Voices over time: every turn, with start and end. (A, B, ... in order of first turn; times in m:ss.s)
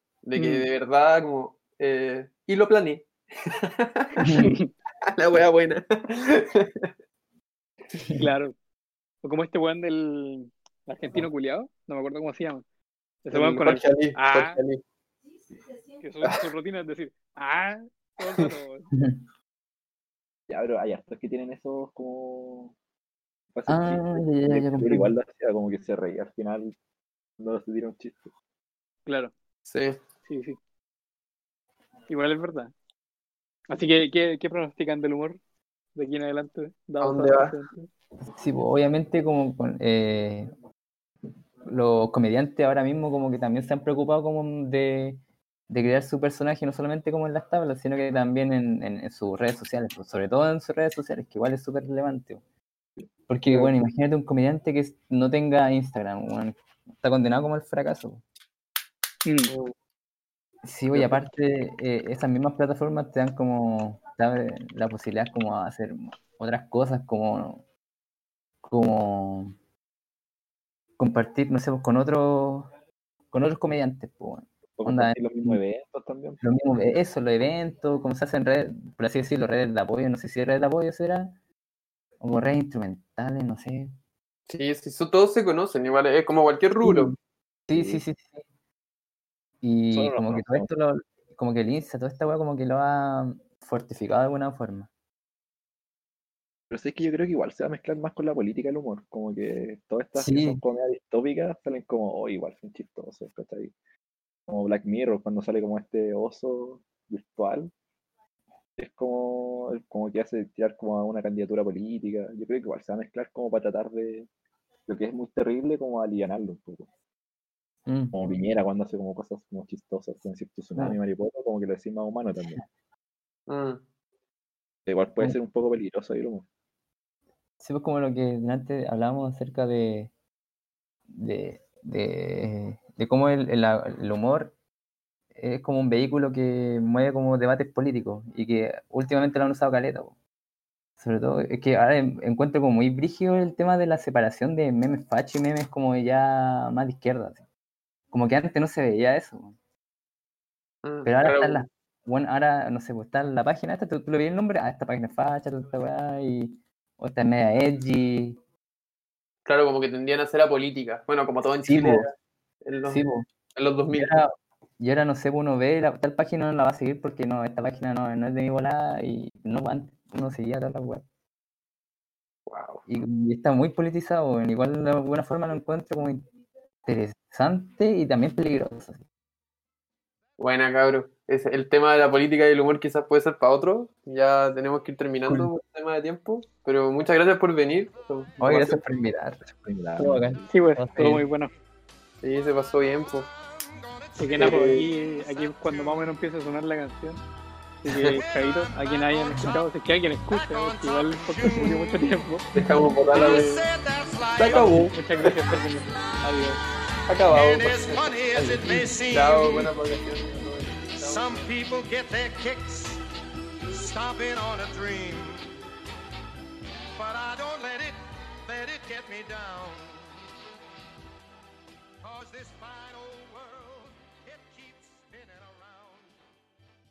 0:00.2-0:04.3 A
0:00.4-0:00.7 B
0:04.2-0:04.6 C
0:04.4-0:04.7 B
0:05.1-0:06.9 A
0:08.2-0:08.5 B
0:09.2-0:12.6 B
0:13.2-0:14.6 B
0:13.3-0:14.8 A
0:16.0-0:18.9 B
0:18.9-0:19.2 C
0:20.5-0:22.8 D
0:23.5-0:26.8 D
0:23.7-0:25.1 C
0:27.4-0:28.3 D
0:29.1-0:29.3 B
0:29.7-0:30.0 A
0:30.3-0:30.6 B
0:32.1-0:32.7 B
0:33.7-0:35.4 B
0:36.0-0:37.7 B
0:37.0-0:37.8 A
0:38.3-0:40.5 C
0:41.6-0:52.4 C
0:53.3-0:58.2 C
0:53.5-0:53.7 A
0:59.2-0:59.5 B
0:59.5-0:59.7 A
1:00.6-1:07.6 C
1:00.9-1:01.2 A
1:08.6-1:09.5 C
1:11.0-1:12.7 C
1:13.3-1:15.6 C
1:14.8-1:16.4 D
1:16.4-1:21.4 C
1:22.2-1:23.9 C
1:24.5-1:27.1 A
1:26.8-1:27.2 C
1:27.7-1:28.4 C
1:27.7-1:28.0 D
1:29.6-1:34.9 C
1:29.9-1:30.7 D
1:36.7-1:43.7 D
1:40.2-1:40.6 C
1:44.5-1:47.7 D
1:48.8-1:54.3 D
1:54.9-1:56.9 D
1:57.9-1:58.2 C
1:58.1-2:02.6 D
2:03.5-2:03.8 A
2:04.9-2:06.4 D
2:07.6-2:10.1 C
2:11.1-2:14.5 C
2:15.4-2:20.1 C
2:21.0-2:27.4 C
2:28.1-2:29.6 C
2:30.8-2:31.6 A
2:31.0-2:38.4 C
2:39.5-2:43.0 A
2:41.6-2:42.1 C
2:42.9-2:43.3 C
2:43.6-2:44.2 A
2:43.9-2:51.0 C
2:52.5-2:52.8 A
2:52.9-2:56.3 C
2:56.8-2:59.0 C
3:00.4-3:08.8 A
3:08.4-3:09.4 C
3:09.4-3:10.5 D
3:10.0-3:11.3 C
3:10.5-3:11.5 B
3:12.2-3:13.3 A
3:13.8-3:16.1 E
3:14.2-3:17.2 B
3:14.4-3:14.9 A
3:17.8-3:22.5 B
3:17.9-3:18.2 A
3:18.0-3:19.6 E
3:20.3-3:24.9 E
3:22.5-3:23.5 A
3:23.1-3:23.7 B
3:24.4-3:25.3 A
3:24.5-3:26.6 B
3:27.1-3:28.1 A
3:27.3-3:29.7 E
3:28.4-3:28.9 C
3:29.1-3:31.5 A
3:30.9-3:33.0 E
3:33.7-3:35.5 E
3:37.0-3:40.2 E
3:42.0-3:46.2 E